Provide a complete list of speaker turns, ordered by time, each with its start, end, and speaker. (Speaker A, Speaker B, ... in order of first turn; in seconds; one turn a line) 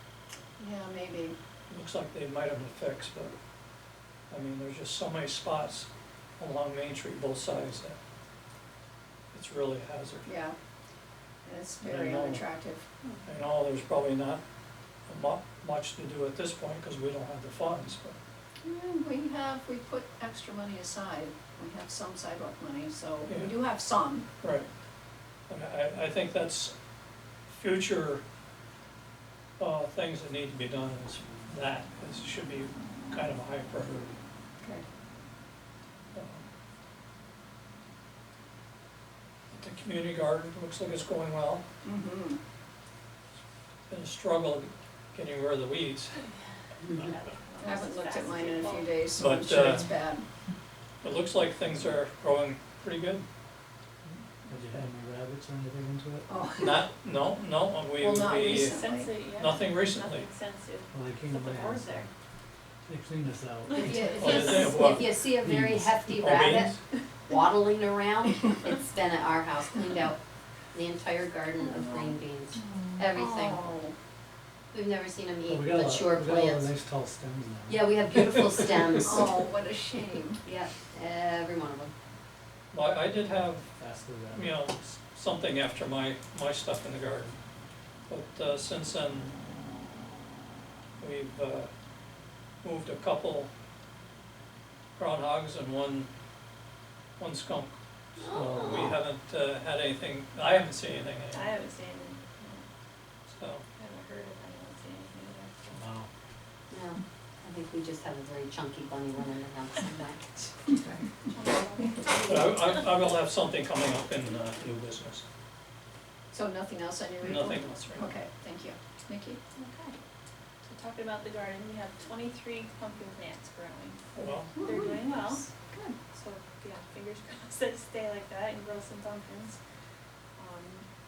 Speaker A: 0.6-1.4
Speaker B: 1.7-3.4
Speaker B: 4.3-8.0
Speaker B: 9.3-10.3
Speaker A: 10.2-10.5
Speaker A: 11.4-12.8
Speaker B: 11.8-12.5
Speaker B: 13.3-14.4
Speaker B: 15.1-18.2
Speaker A: 18.6-24.3
Speaker B: 23.3-23.6
Speaker B: 24.4-24.7
Speaker B: 25.5-26.7
Speaker B: 27.5-28.2
Speaker B: 29.6-34.1
Speaker B: 36.1-36.5
Speaker B: 39.5-41.6
Speaker A: 41.8-42.4
Speaker B: 43.9-46.2
Speaker C: 47.0-48.9
Speaker A: 47.6-50.3
Speaker B: 49.2-49.9
Speaker B: 51.0-53.3
Speaker D: 54.1-56.3
Speaker A: 56.3-56.8
Speaker B: 56.6-60.3
Speaker A: 58.0-59.1
Speaker C: 58.4-62.1
Speaker D: 60.9-62.1
Speaker D: 62.9-64.1
Speaker A: 63.8-64.8
Speaker E: 63.9-66.7
Speaker B: 64.2-65.1
Speaker D: 65.3-66.0
Speaker B: 66.1-66.8
Speaker E: 67.2-70.2
Speaker E: 70.7-73.7
Speaker A: 71.7-72.1
Speaker A: 72.8-74.0
Speaker E: 74.7-76.7
Speaker D: 75.5-79.2
Speaker E: 77.7-79.4
Speaker A: 79.1-80.4
Speaker E: 80.5-81.9
Speaker B: 82.7-83.7
Speaker D: 83.8-84.5
Speaker B: 84.3-87.4
Speaker B: 88.1-89.3
Speaker B: 91.0-91.7
Speaker B: 92.6-93.5
Speaker B: 95.0-96.1
Speaker B: 97.2-101.5
Speaker E: 98.2-99.0
Speaker C: 101.3-102.6
Speaker B: 103.3-103.6
Speaker C: 103.8-105.8
Speaker D: 105.7-106.1
Speaker E: 106.7-110.8
Speaker C: 111.2-112.7
Speaker B: 112.2-115.2
Speaker A: 116.3-119.4
Speaker B: 117.2-118.1
Speaker C: 119.5-120.0
Speaker C: 120.7-125.5
Speaker B: 124.2-124.5
Speaker A: 124.5-126.0
Speaker C: 126.1-129.6
Speaker C: 130.4-130.8